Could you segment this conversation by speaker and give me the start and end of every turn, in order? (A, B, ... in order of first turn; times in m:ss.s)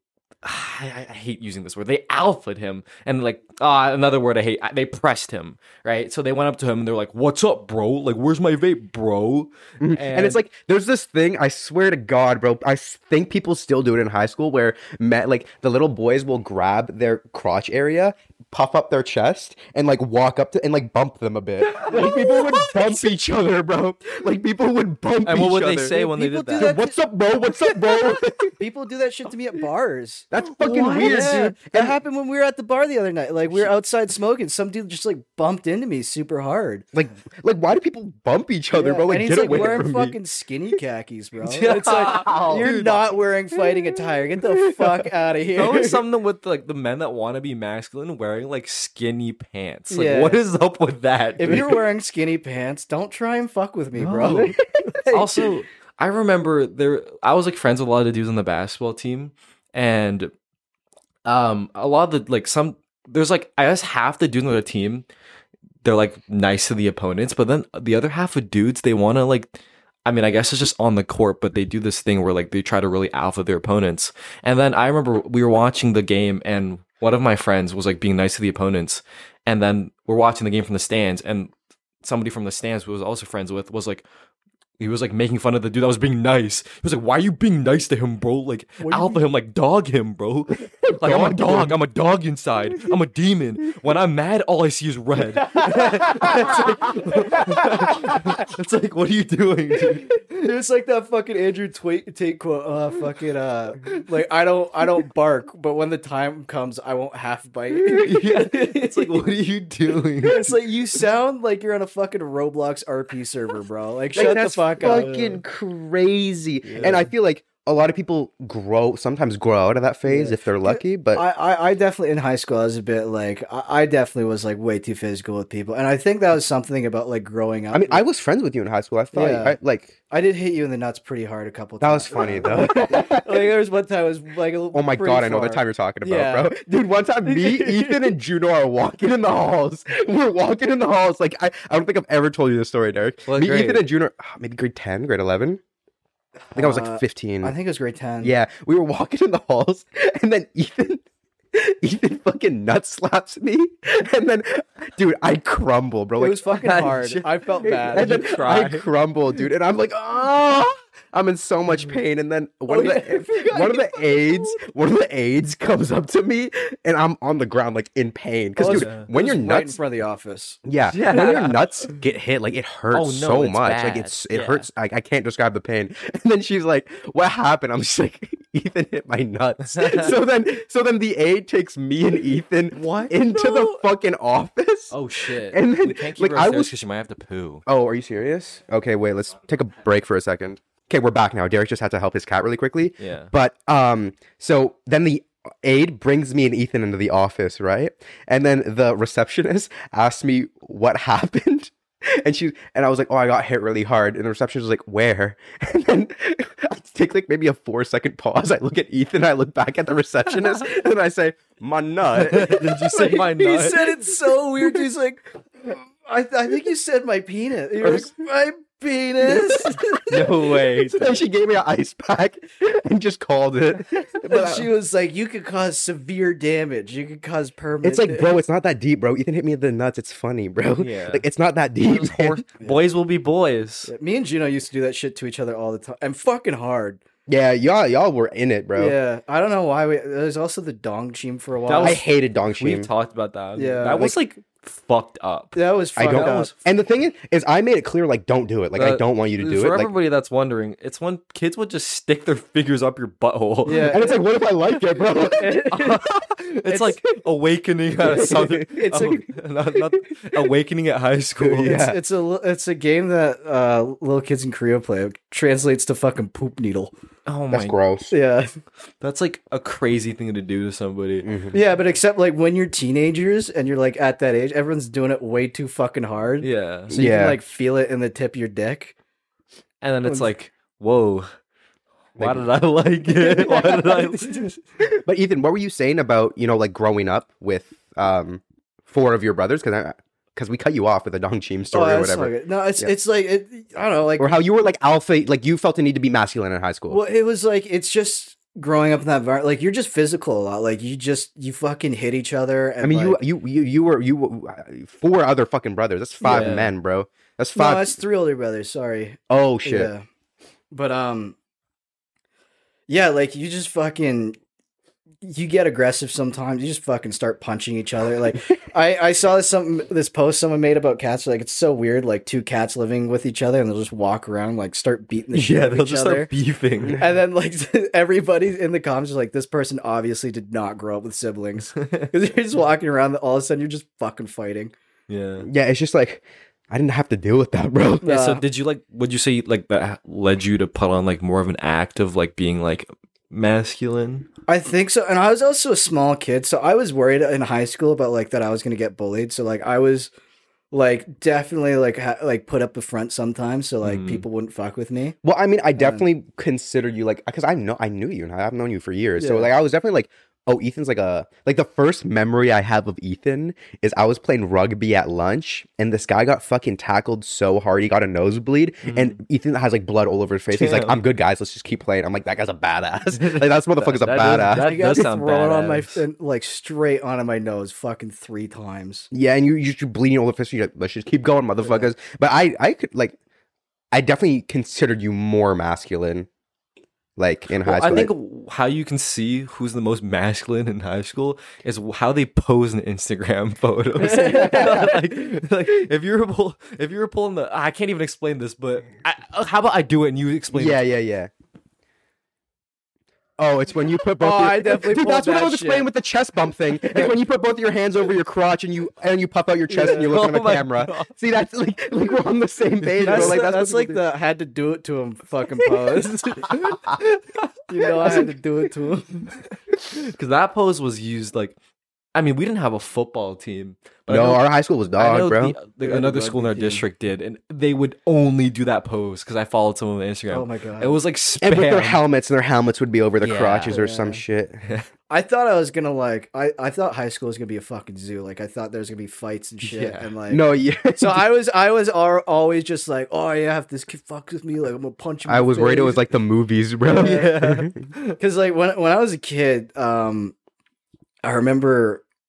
0:00.4-0:10.4 A
0:09.8-0:26.0 B
0:21.7-0:22.3 A
0:21.8-0:22.4 C
0:25.2-0:26.8 A
0:25.9-0:27.0 C
0:26.6-0:28.6 B
0:28.6-0:36.8 C
0:30.3-0:32.0 B
0:30.6-0:31.5 A
0:36.9-0:40.2 B
0:38.7-0:46.0 C
0:39.5-0:39.8 A
0:41.5-0:43.1 A
0:41.9-0:42.7 B
0:45.6-0:51.8 A
0:49.9-0:50.4 C
0:51.4-0:55.5 C
0:54.0-0:54.6 A
0:55.1-1:00.3 A
1:01.2-1:05.1 A
1:05.8-1:21.5 A
1:22.0-1:24.0 A
1:24.8-1:40.2 A
1:28.8-1:29.2 C
1:30.8-1:31.8 B
1:35.4-1:38.2 C
1:36.5-1:36.7 B
1:40.1-1:49.2 C
1:47.9-1:50.5 A
1:50.2-1:55.4 C
1:54.2-2:01.2 B
1:56.7-1:57.0 C
1:56.7-1:57.0 A
2:00.1-2:08.0 C
2:07.7-2:10.0 B
2:09.1-2:09.6 C
2:10.1-2:16.6 C
2:11.8-2:13.5 B
2:14.7-2:25.6 B
2:17.2-2:18.1 C
2:23.3-2:23.8 A
2:26.5-2:28.3 C
2:26.6-2:27.5 B
2:28.2-2:36.9 B
2:36.2-2:38.4 C
2:36.6-2:38.9 A
2:37.8-2:49.8 B
2:42.7-2:44.6 C
2:48.6-2:50.6 C
2:48.6-2:49.1 A
2:50.6-3:05.0 B
2:50.9-2:51.6 A
2:52.9-2:54.7 A
2:59.6-3:00.2 A
3:02.8-3:03.8 A
3:04.9-3:07.6 A
3:05.5-3:06.8 B
3:07.7-3:32.7 B
3:13.0-3:13.3 A
3:32.2-3:34.0 A
3:32.8-3:40.2 C
3:37.8-3:38.1 B
3:39.3-3:39.8 B
3:40.1-3:41.2 A
3:40.9-3:44.7 B
3:44.2-3:48.4 C
3:47.8-3:52.4 B
3:50.8-3:51.2 A
3:51.8-3:53.9 A
3:53.9-3:57.0 C
3:57.3-3:59.0 B
3:58.8-4:02.0 C
4:01.7-4:06.6 A
4:01.8-4:02.9 B
4:03.6-4:04.1 C
4:05.6-4:06.5 C
4:06.0-4:09.9 B
4:08.8-4:14.0 A
4:13.6-4:14.2 C
4:13.9-4:15.5 B
4:15.3-4:16.0 C
4:15.7-4:21.9 A
4:16.7-4:17.0 C
4:18.0-4:19.1 B
4:18.1-4:19.3 C
4:21.4-4:26.9 C
4:21.6-4:22.0 B
4:27.3-4:27.8 A
4:27.5-4:28.1 B
4:28.1-4:28.5 C
4:29.0-4:31.3 A
4:31.2-4:31.6 B
4:31.5-4:39.0 C
4:36.4-4:36.9 A
4:36.9-4:37.4 B
4:39.8-4:41.3 A
4:42.2-4:44.5 A
4:42.2-4:42.5 B
4:43.1-4:44.6 C
4:44.8-4:52.9 B
4:51.7-4:54.4 C
4:54.2-4:57.0 B
4:56.9-5:03.2 C
5:02.8-5:08.0 B
5:06.2-5:06.6 C
5:06.2-5:06.7 A
5:07.6-5:10.0 C
5:09.3-5:09.9 B
5:10.7-5:11.4 C
5:12.9-5:14.4 C
5:15.2-5:26.3 C
5:25.3-5:27.0 A
5:27.0-5:34.7 C
5:31.8-5:32.1 A
5:35.1-5:35.5 A
5:35.4-5:38.1 B
5:38.0-5:38.4 C
5:38.0-5:44.3 A
5:44.5-5:50.1 C
5:50.7-5:55.2 C
5:53.8-5:54.2 A
5:55.2-6:15.0 B
5:55.8-5:56.0 C
5:59.2-5:59.5 C
6:08.8-6:09.2 A
6:10.5-6:11.0 A
6:13.1-6:16.0 A
6:14.6-6:19.1 C
6:19.1-6:23.2 B
6:21.6-6:21.9 C
6:23.9-6:26.3 B
6:27.2-6:28.1 B
6:27.6-6:40.8 A
6:34.0-6:34.9 C
6:34.1-6:35.0 B
6:40.5-6:41.3 B
6:43.4-6:54.0 B
6:44.2-6:45.9 C
6:49.7-6:50.2 C
6:49.9-6:51.1 A
6:52.8-6:53.6 A
6:53.0-6:56.8 C
6:56.5-6:57.1 A
6:57.7-6:59.3 C
6:58.0-6:58.3 A
6:59.9-7:01.6 A
7:02.2-7:04.4 A
7:04.1-7:05.6 B
7:05.0-7:12.0 A
7:05.8-7:06.8 C
7:10.3-7:11.0 C
7:11.4-7:14.6 B
7:13.2-7:13.8 A
7:13.7-7:14.2 C
7:15.1-7:20.4 C
7:19.6-7:20.1 A
7:20.3-7:21.2 B
7:21.0-7:26.1 C
7:25.3-7:27.8 B
7:26.9-7:27.4 C
7:26.9-7:28.2 A
7:28.2-7:30.3 C
7:31.2-7:32.0 C